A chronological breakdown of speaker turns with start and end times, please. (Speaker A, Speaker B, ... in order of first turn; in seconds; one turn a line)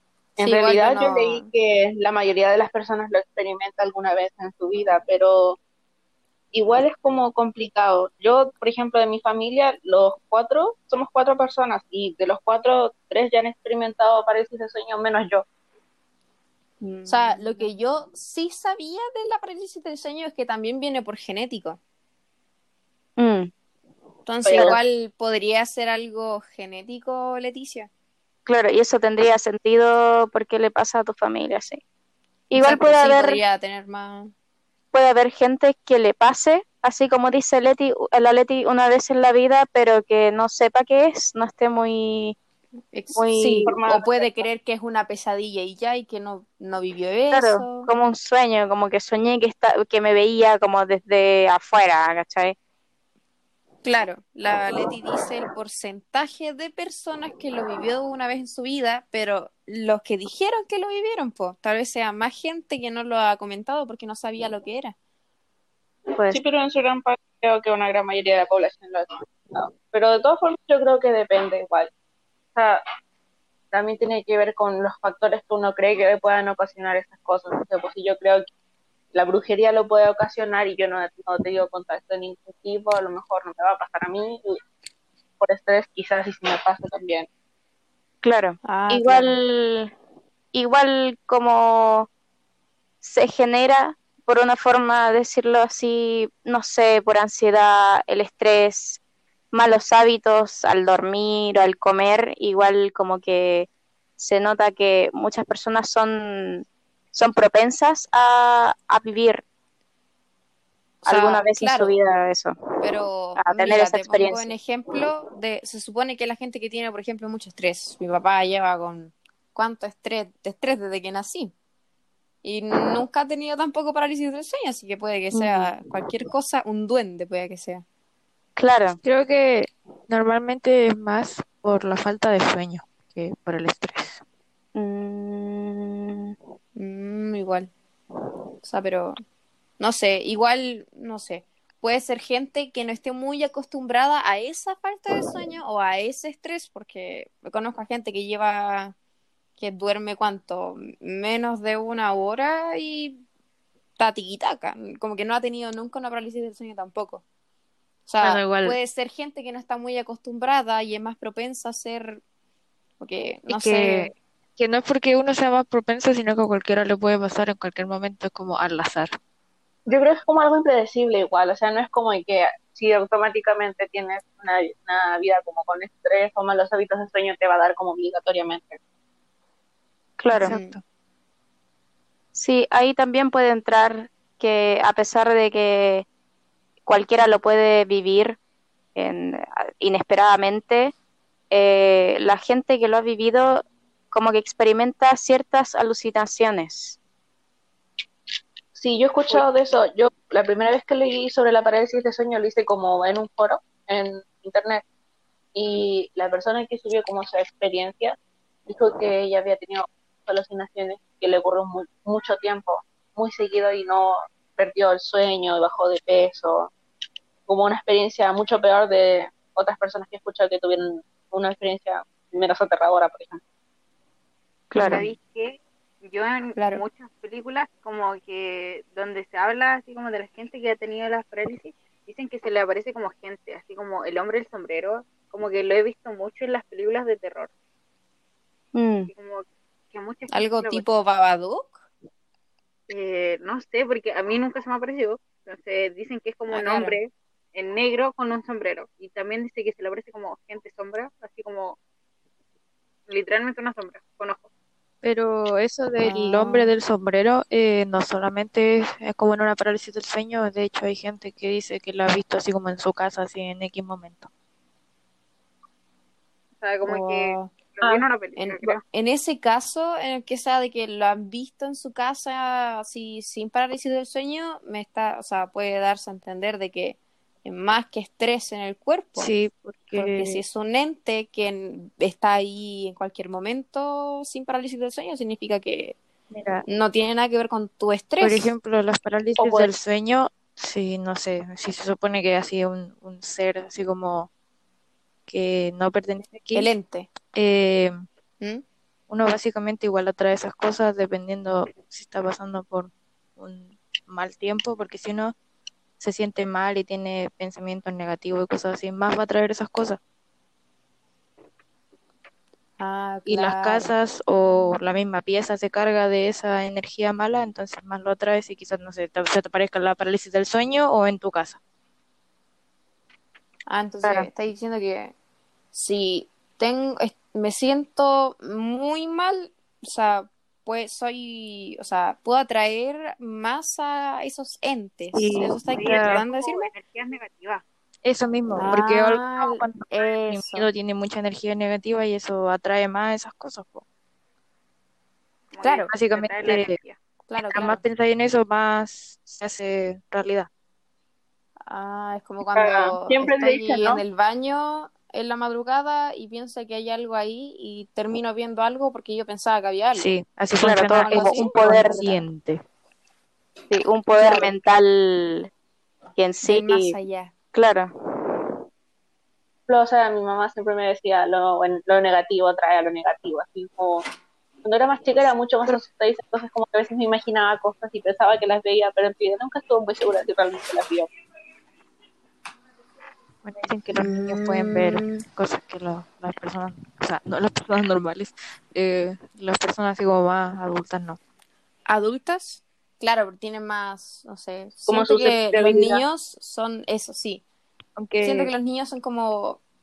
Speaker A: 0.4-1.5
Speaker B: 0.4-5.6
Speaker B: 6.5-15.4
Speaker C: 16.8-17.7
Speaker A: 17.1-21.8
Speaker C: 23.2-23.5
Speaker A: 24.2-27.9
Speaker B: 24.4-24.8
Speaker C: 28.4-31.8
Speaker C: 32.5-33.4
Speaker A: 32.6-34.3
Speaker C: 34.9-42.4
Speaker A: 42.9-47.9
Speaker C: 43.1-43.8
Speaker B: 43.6-44.4
Speaker C: 47.3-52.5
Speaker A: 53.8-65.0
Speaker C: 66.1-66.4
Speaker B: 66.3-71.9
Speaker B: 72.5-72.8
Speaker B: 73.7-78.5
Speaker B: 79.1-84.6
Speaker B: 85.4-87.3
Speaker C: 88.2-89.9
Speaker A: 88.6-89.4
Speaker C: 90.5-92.1
Speaker C: 93.0-99.0
Speaker C: 99.5-109.4
Speaker A: 111.0-111.9
Speaker C: 111.0-112.8
Speaker A: 112.8-121.5
Speaker C: 113.4-114.5
Speaker A: 122.4-127.8
Speaker C: 125.3-125.7
Speaker C: 128.6-129.0
Speaker D: 129.0-134.2
Speaker C: 134.7-136.3
Speaker A: 136.8-137.7
Speaker A: 138.6-139.2
Speaker A: 139.8-148.9
Speaker A: 149.6-153.2
Speaker A: 154.0-157.2
Speaker A: 158.1-162.2
Speaker D: 158.2-158.8
Speaker A: 163.0-164.1
Speaker D: 163.5-169.1
Speaker B: 169.9-178.8
Speaker C: 180.2-180.5
Speaker D: 180.3-180.8
Speaker A: 180.4-180.8
Speaker C: 182.3-186.1
Speaker C: 186.8-188.4
Speaker C: 188.9-190.9
Speaker C: 191.5-197.0
Speaker B: 198.7-204.8
Speaker B: 205.5-216.7
Speaker B: 217.4-223.4
Speaker C: 224.7-225.0
Speaker A: 224.8-225.1
Speaker E: 224.8-237.5
Speaker A: 226.6-226.8
Speaker C: 238.7-239.1
Speaker E: 239.1-240.8
Speaker A: 240.3-241.8
Speaker E: 242.9-251.8
Speaker A: 246.5-247.0
Speaker E: 253.1-254.5
Speaker D: 255.0-264.3
Speaker A: 256.0-256.7
Speaker E: 266.6-268.8
Speaker A: 266.8-267.5
Speaker A: 268.4-279.3
Speaker D: 279.1-280.4
Speaker A: 279.9-285.9
Speaker D: 286.3-286.6
Speaker A: 286.7-288.5
Speaker D: 288.2-294.3
Speaker B: 289.4-289.7
Speaker D: 295.3-296.7
Speaker A: 296.5-297.1
Speaker D: 297.3-298.0
Speaker D: 299.1-305.3
Speaker D: 306.0-310.0
Speaker A: 312.8-313.9
Speaker D: 313.2-321.6
Speaker A: 323.7-325.1
Speaker A: 325.7-336.7
Speaker D: 335.1-336.2
Speaker E: 335.7-337.6
Speaker D: 338.0-343.8
Speaker A: 338.5-340.7
Speaker E: 345.5-347.0
Speaker A: 345.6-345.9
Speaker D: 345.9-346.8
Speaker A: 347.3-347.8
Speaker D: 347.4-350.5
Speaker A: 351.7-360.1
Speaker B: 352.5-354.0
Speaker D: 359.9-362.6
Speaker C: 360.6-362.1
Speaker A: 361.0-362.2
Speaker C: 363.7-365.5
Speaker A: 364.1-364.5
Speaker C: 366.1-366.9
Speaker A: 366.4-367.3
Speaker C: 367.5-368.5
Speaker B: 369.7-374.0
Speaker B: 374.6-381.1
Speaker D: 383.4-391.2
Speaker A: 383.9-385.2
Speaker A: 391.9-397.4
Speaker B: 394.9-396.0
Speaker D: 398.0-398.5
Speaker A: 398.2-399.6